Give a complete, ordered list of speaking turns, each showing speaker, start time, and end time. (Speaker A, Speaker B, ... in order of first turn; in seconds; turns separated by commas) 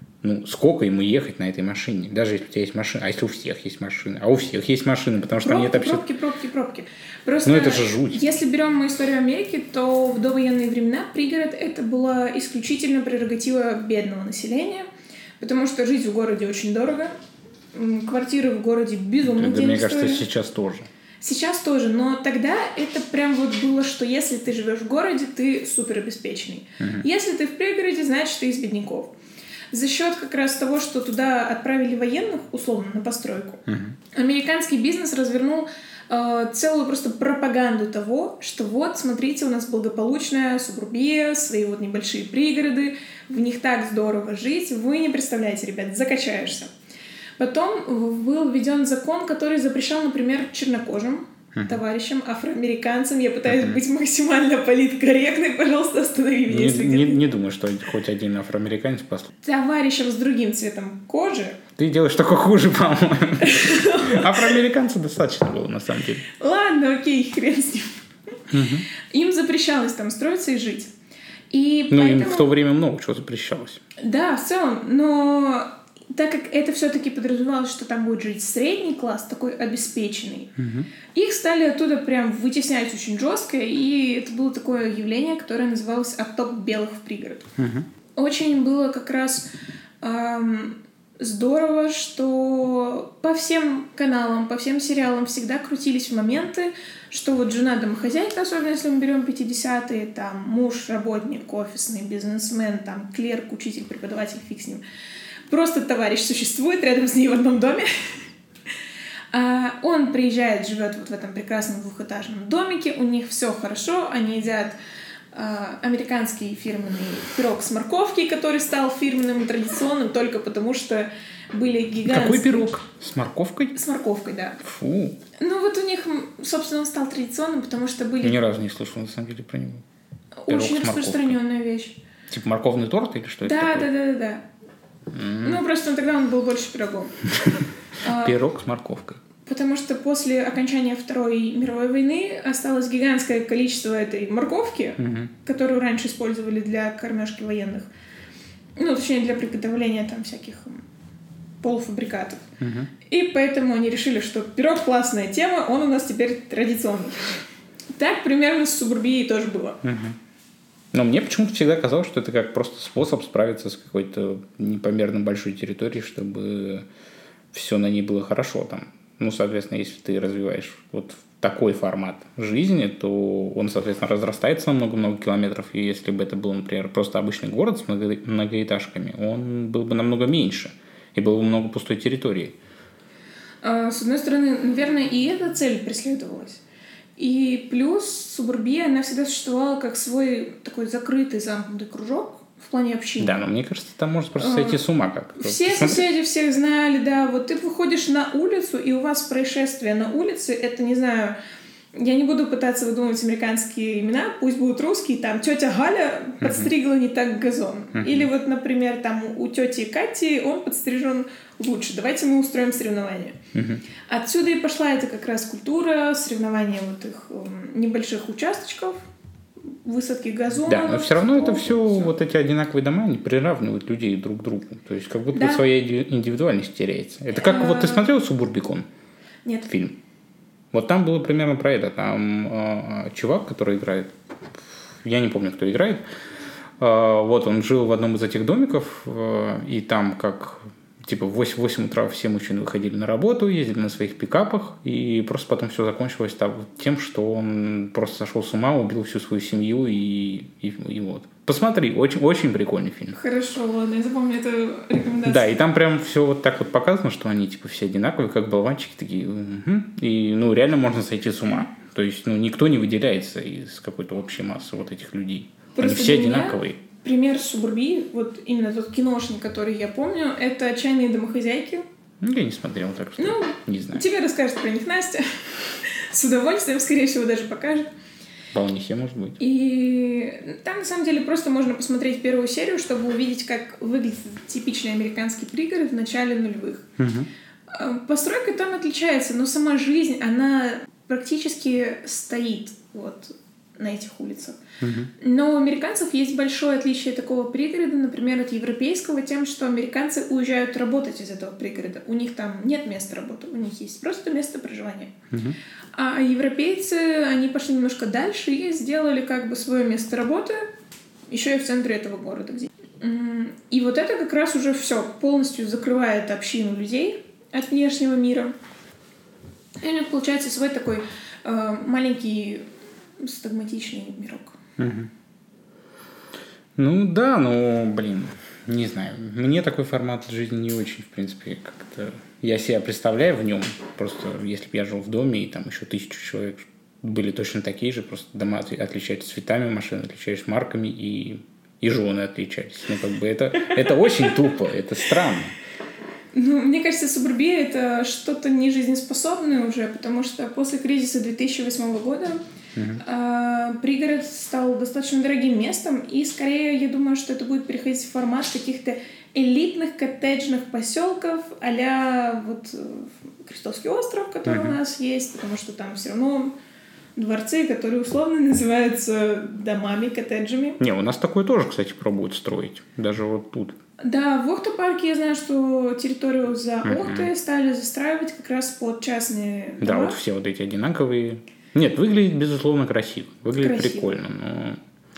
Speaker A: 0.2-6.0, Speaker B: 5.4-14.9, Speaker A: 7.5-8.2, Speaker B: 15.4-17.1, Speaker B: 17.7-20.2, Speaker A: 19.2-20.9, Speaker B: 21.2-29.1, Speaker A: 26.8-27.1, Speaker B: 29.7-46.7, Speaker A: 33.7-34.0, Speaker B: 47.4-57.2, Speaker A: 51.5-51.8, Speaker A: 53.5-53.8, Speaker A: 56.5-59.3, Speaker B: 59.4-61.6, Speaker A: 61.8-66.2, Speaker B: 63.4-64.6, Speaker B: 66.3-68.1, Speaker A: 68.5-68.9, Speaker B: 68.9-70.9, Speaker B: 71.5-72.5, Speaker A: 71.9-73.8, Speaker B: 74.0-80.5, Speaker A: 80.6-80.9, Speaker B: 81.2-87.5, Speaker A: 87.6-87.9, Speaker B: 88.2-89.5, Speaker B: 90.0-104.8, Speaker B: 105.5-108.2, Speaker B: 109.3-114.8, Speaker B: 115.3-122.7, Speaker A: 122.1-123.8, Speaker B: 123.8-124.6, Speaker A: 124.6-125.2, Speaker B: 125.4-128.4, Speaker A: 128.2-129.8, Speaker B: 130.4-132.0, Speaker A: 130.5-131.4, Speaker A: 132.3-133.9, Speaker B: 133.4-134.4, Speaker A: 135.1-135.6, Speaker B: 135.4-137.2, Speaker B: 138.0-138.4, Speaker A: 138.1-139.2, Speaker B: 139.4-147.9, Speaker A: 145.0-145.3, Speaker B: 148.8-150.8, Speaker B: 151.6-152.5, Speaker A: 152.6-152.9, Speaker B: 153.1-157.3, Speaker B: 158.0-159.8, Speaker A: 159.8-160.2, Speaker A: 160.9-166.9, Speaker A: 167.5-182.6, Speaker B: 183.6-186.6, Speaker B: 187.2-193.4, Speaker A: 193.2-196.1, Speaker B: 194.4-194.8, Speaker B: 195.4-201.4, Speaker B: 201.9-213.4, Speaker A: 206.4-206.7, Speaker A: 207.9-208.3, Speaker A: 213.5-213.8, Speaker B: 214.1-219.1, Speaker B: 219.8-222.1, Speaker A: 220.7-228.9, Speaker B: 225.3-225.6, Speaker B: 227.3-228.1, Speaker A: 229.7-230.0, Speaker A: 230.7-236.0, Speaker A: 236.8-253.2, Speaker B: 253.1-255.6, Speaker A: 255.2-266.8, Speaker B: 265.8-271.9, Speaker A: 272.2-274.1, Speaker B: 273.2-277.9, Speaker A: 278.5-279.4, Speaker B: 279.4-286.9, Speaker A: 287.0-287.3, Speaker B: 287.7-294.6, Speaker A: 294.8-295.1, Speaker B: 295.2-305.1, Speaker A: 305.3-305.6, Speaker B: 305.9-310.6, Speaker B: 311.3-318.5, Speaker B: 319.8-322.6, Speaker B: 323.2-324.6, Speaker A: 324.8-325.1, Speaker A: 326.8-345.6, Speaker B: 346.3-352.4, Speaker A: 352.8-353.0, Speaker B: 353.0-366.5, Speaker A: 364.5-364.8, Speaker B: 367.2-370.8, Speaker A: 370.8-373.8, Speaker B: 374.0-380.2, Speaker A: 376.8-377.3, Speaker A: 379.8-384.8, Speaker B: 383.5-384.1